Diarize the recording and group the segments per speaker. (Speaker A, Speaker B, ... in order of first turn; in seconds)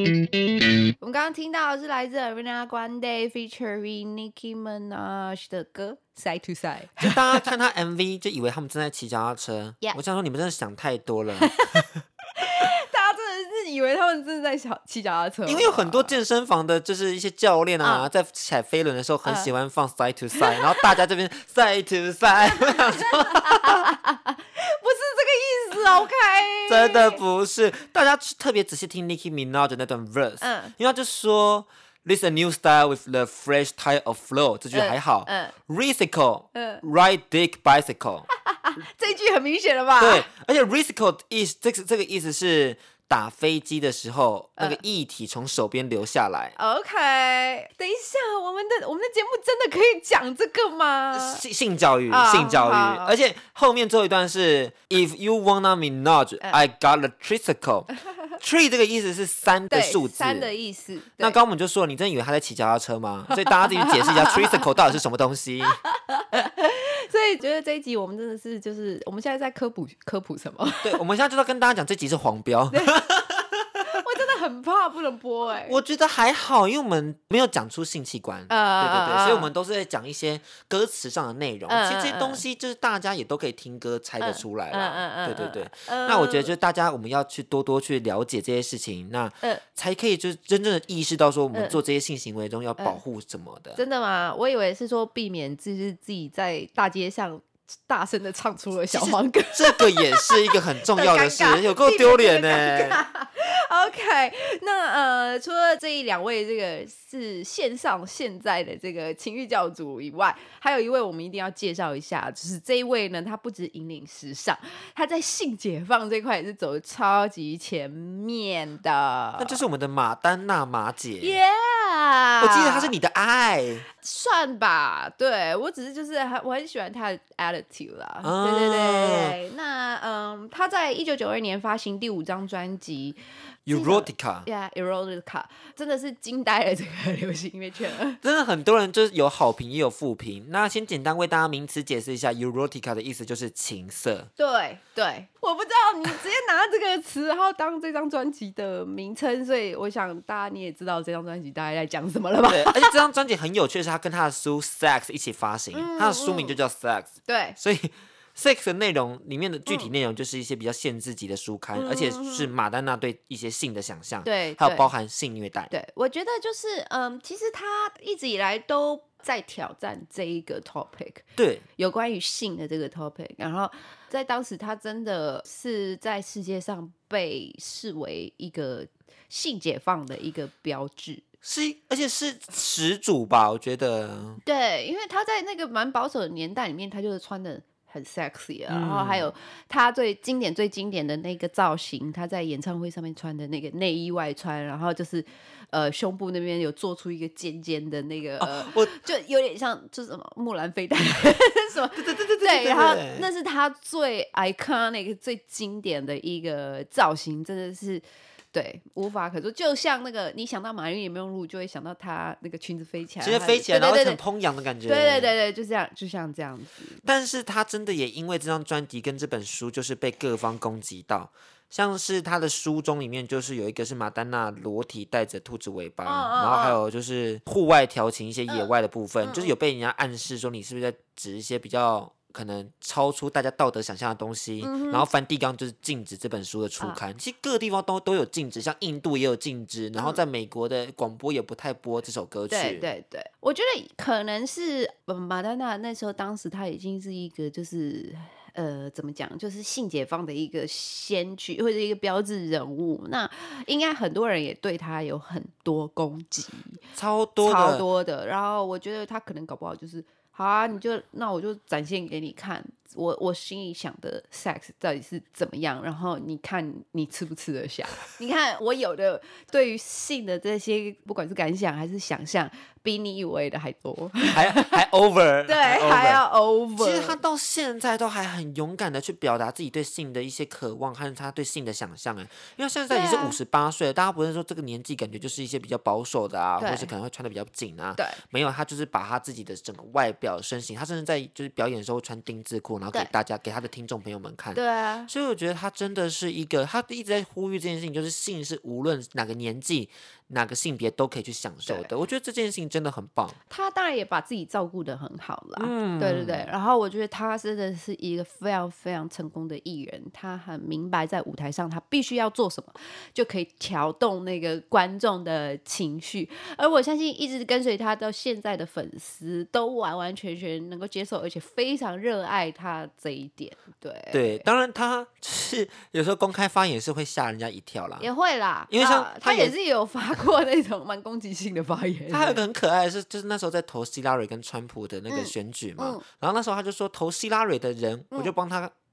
Speaker A: 1.0-7.5, 11.4-11.8, 12.4-16.1, 17.8-18.1, 20.4-20.9, 22.6-27.2, 30.4-30.7, 34.7-35.5, 36.5-36.8, 38.5-40.3, 46.5-51.4, 52.1-53.1, 59.7-61.4, 63.8-64.4, 65.9-71.0, 72.7-73.0, 73.8-75.8, 78.5-79.5, 81.7-82.4, 84.2-86.5, 91.5-91.8, 93.8-119.6, 121.2-122.9, 124.0-138.2, 144.4-153.0, 155.7-156.6, 157.2-157.6, 161.8-162.5, 164.2-164.9, 165.7-171.2, 171.8-181.2, 184.4-214.2, 214.8-217.0, 226.0-226.8, 229.2-229.5, 234.6-235.1, 242.5-256.8, 257.4-274.8, 275.5-277.2, 282.9-283.4, 286.6-286.9, 294.5-295.1, 303.5-324.4, 328.0-332.4, 335.1-336.0
Speaker B: 7.0-11.8, 15.4-23.8, 26.7-38.3, 40.0-46.5, 51.1-60.5, 61.2-65.8, 70.8-73.9, 75.7-93.8, 98.9-103.0, 119.4-121.4, 122.4-123.8, 128.2-129.3, 133.7-134.5, 138.2-144.3, 152.5-165.7, 171.4-171.6, 181.4-184.4, 188.7-189.3, 198.4-199.0, 201.9-203.3, 213.2-215.3, 217.0-242.9, 256.9-257.8, 274.3-276.2, 276.8-303.4, 305.6-306.5, 324.1-328.1, 328.7-329.5, 332.1-338.7